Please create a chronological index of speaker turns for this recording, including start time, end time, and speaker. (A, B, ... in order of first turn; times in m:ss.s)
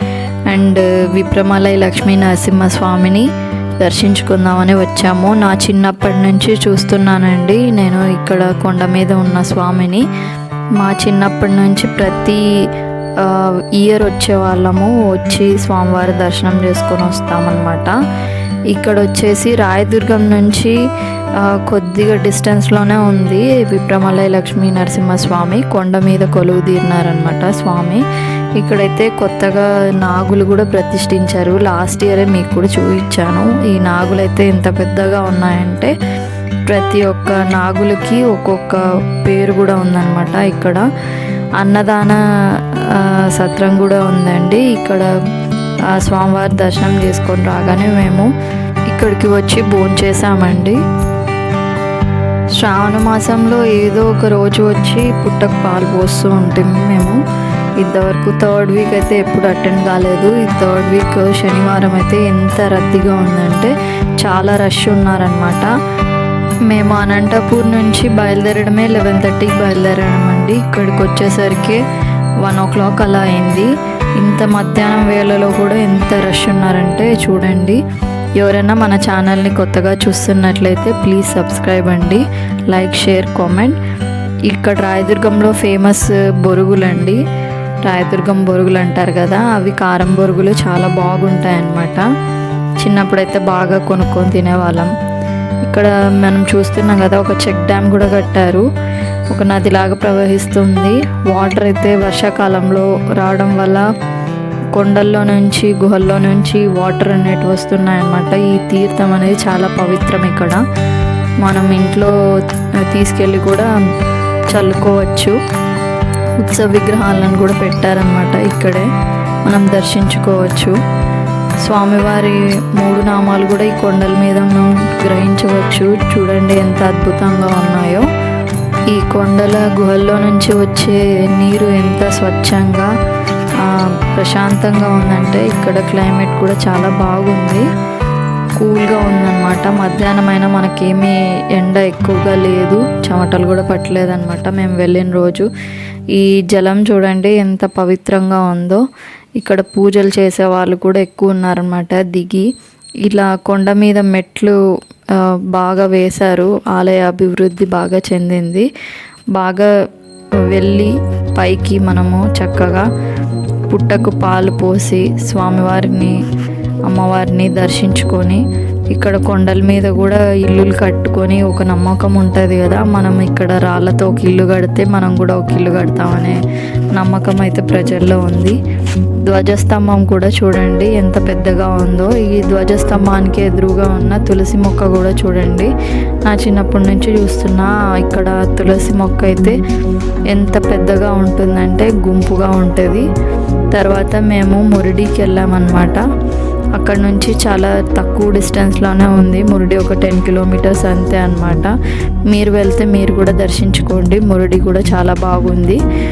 0:00.5-0:03.3 A
0:03.8-0:10.0 A
0:10.8-0:12.4 A
0:13.2-0:17.9 A
0:18.7-0:20.8 A
0:21.4-0:28.0 A
0:28.6-0:35.9 A
0:36.7-0:40.9 A
0:41.6-0:42.2 A
0:42.8-0:45.1 A
0:45.9-0:48.3 A
0:48.9-0:50.8 A
0:52.6-0:57.2 A
0:57.8-1:05.7 A
1:06.7-1:11.8 A
1:12.4-1:17.8 A
1:18.4-1:23.8 A
1:24.5-1:27.2 A
1:27.8-1:32.0 A
1:32.8-1:34.9 A
1:35.6-1:38.6 A
1:39.3-1:43.8 A
1:44.7-1:50.6 A
1:51.4-1:52.1 A
1:52.8-1:53.7 A
1:54.5-1:55.4 A
1:56.4-1:58.9 A
1:59.5-2:00.8 A
2:01.6-2:08.1 A
2:08.9-2:12.9 A
2:13.6-2:17.7 A
2:18.6-2:25.5 A
2:26.1-2:28.8 A
2:29.4-2:32.5 A
2:33.0-2:34.6 A
2:35.1-2:38.7 A
2:39.3-2:39.7 A
2:40.5-2:42.9 A
2:43.7-2:46.2 A
2:46.9-2:48.4 A
2:48.9-2:56.4 A
2:56.9-2:58.6 A
2:59.2-3:05.7 A
3:06.2-3:09.6 A
3:10.3-3:13.1 A
3:13.7-3:16.0 A
3:16.8-3:21.7 A
3:22.3-3:25.8 A